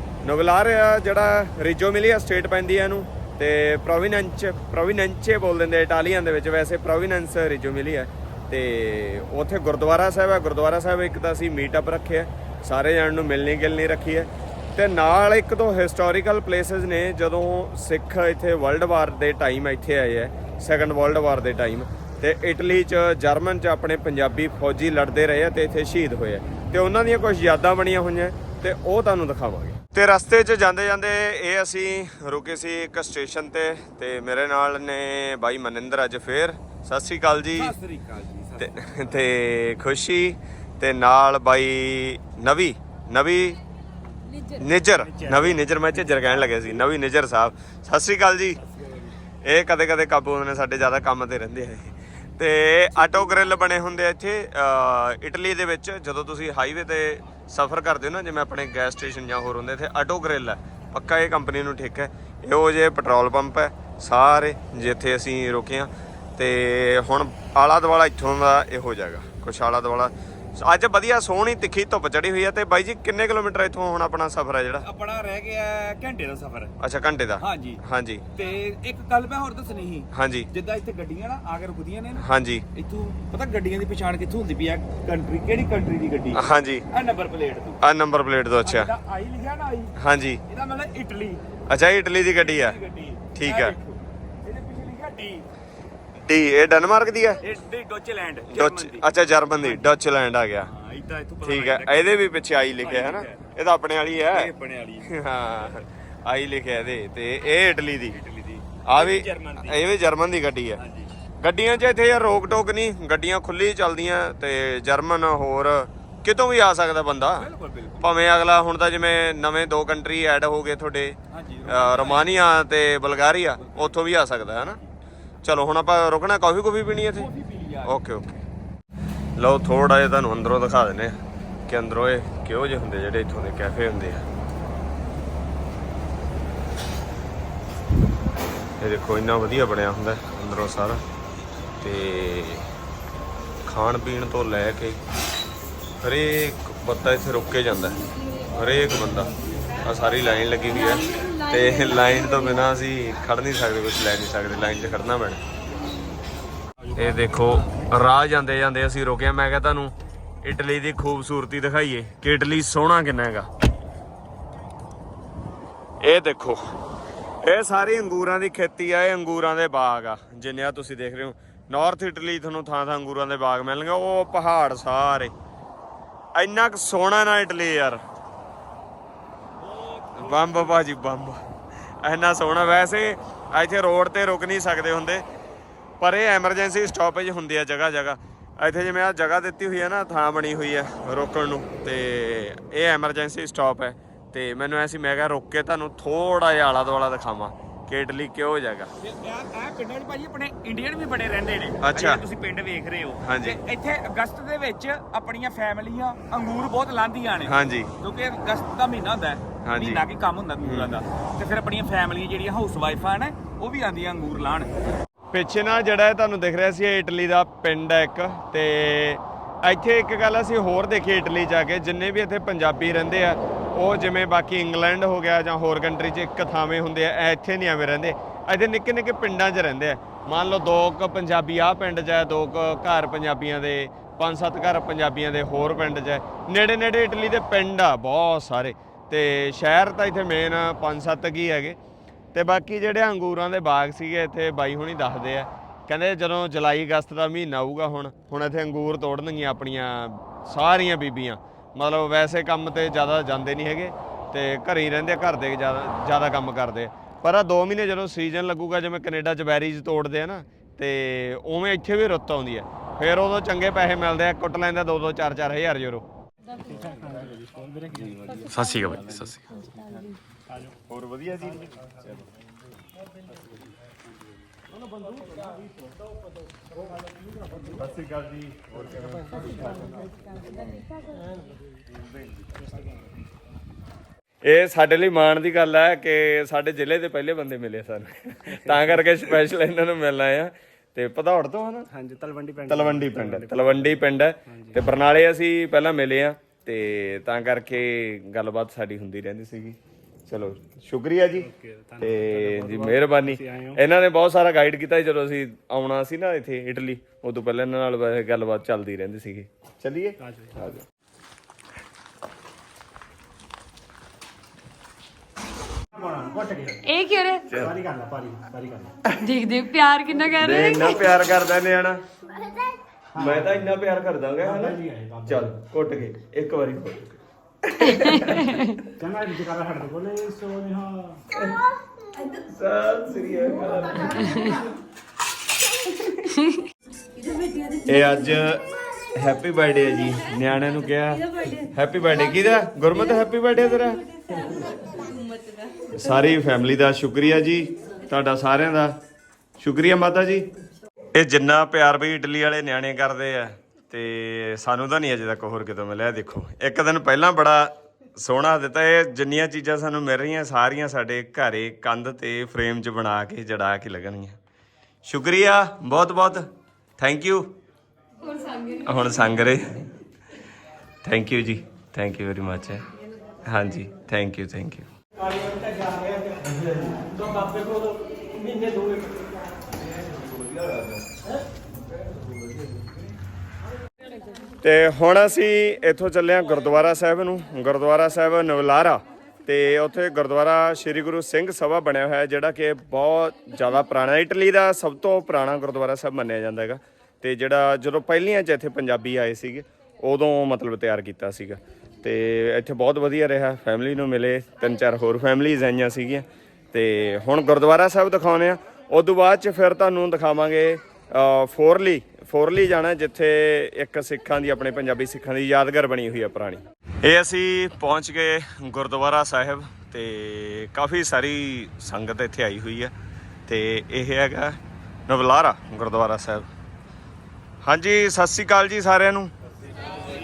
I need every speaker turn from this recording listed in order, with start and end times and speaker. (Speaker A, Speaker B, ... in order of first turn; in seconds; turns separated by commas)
Speaker A: 0.2-37.7, Speaker B: 37.5-39.2, Speaker A: 38.6-43.6, Speaker C: 44.3-44.7, Speaker A: 44.6-48.6, Speaker B: 45.0-46.6, Speaker B: 48.8-49.0, Speaker A: 49.4-74.8, Speaker B: 52.9-53.3, Speaker B: 74.8-76.7, Speaker A: 76.8-78.2, Speaker B: 77.4-77.8, Speaker B: 78.3-87.8, Speaker A: 80.1-80.5, Speaker A: 82.2-82.6, Speaker A: 86.3-86.8, Speaker A: 87.8-88.9, Speaker B: 88.6-89.9, Speaker A: 90.0-90.4, Speaker B: 90.5-91.4, Speaker A: 91.7-92.8, Speaker B: 92.3-95.4, Speaker A: 93.3-93.8, Speaker A: 96.3-97.4, Speaker B: 97.4-99.1, Speaker A: 98.5-100.7, Speaker B: 99.6-100.0, Speaker B: 100.7-103.5, Speaker A: 101.4-108.2, Speaker B: 104.2-105.1, Speaker B: 108.1-109.8, Speaker A: 108.8-110.8, Speaker B: 110.8-111.1, Speaker A: 111.4-124.8, Speaker B: 117.3-118.1, Speaker B: 121.3-122.4, Speaker B: 123.6-124.0, Speaker A: 125.4-127.3, Speaker B: 127.1-128.0, Speaker A: 127.8-128.4, Speaker A: 129.3-134.2, Speaker A: 138.8-141.0, Speaker A: 141.8-142.7, Speaker A: 143.6-145.0, Speaker A: 146.0-155.4, Speaker C: 148.0-148.9, Speaker C: 150.6-152.8, Speaker A: 156.9-163.5, Speaker A: 166.0-166.6, Speaker A: 167.4-175.3, Speaker A: 176.3-178.0, Speaker B: 179.6-180.6, Speaker A: 180.2-181.4, Speaker A: 182.0-185.2, Speaker A: 186.0-198.9, Speaker B: 199.0-214.7, Speaker A: 201.8-202.2, Speaker A: 203.2-203.6, Speaker A: 207.4-207.9, Speaker A: 209.6-210.0, Speaker A: 210.6-210.9, Speaker A: 215.3-241.8, Speaker A: 242.3-266.0, Speaker D: 266.6-268.8, Speaker A: 268.5-269.4, Speaker C: 268.6-269.0, Speaker C: 269.5-270.0, Speaker A: 270.9-272.2, Speaker A: 277.8-279.4, Speaker D: 279.5-279.9, Speaker A: 284.4-291.9, Speaker D: 291.9-293.9, Speaker A: 292.6-299.8, Speaker D: 294.5-294.8, Speaker A: 300.3-310.8, Speaker D: 301.9-303.8, Speaker D: 316.0-316.7, Speaker C: 316.8-317.5, Speaker D: 317.5-318.9, Speaker C: 319.1-321.1, Speaker A: 320.4-322.0, Speaker C: 322.4-322.7, Speaker D: 323.1-323.5, Speaker A: 323.1-328.5, Speaker D: 324.4-325.5, Speaker C: 327.9-328.8, Speaker D: 329.0-331.1, Speaker A: 331.3-331.6, Speaker A: 332.3-334.5, Speaker C: 334.2-334.6, Speaker C: 337.2-338.5, Speaker A: 337.9-344.0, Speaker C: 340.9-342.6, Speaker C: 344.3-346.3, Speaker A: 345.9-348.9, Speaker A: 349.6-350.5, Speaker A: 351.1-364.4, Speaker A: 365.0-366.5, Speaker A: 367.0-367.5, Speaker C: 368.2-369.5, Speaker A: 368.8-369.7, Speaker A: 371.0-372.8, Speaker A: 373.4-374.9, Speaker B: 380.1-380.9, Speaker A: 384.6-422.9, Speaker A: 423.5-426.5, Speaker A: 427.6-429.3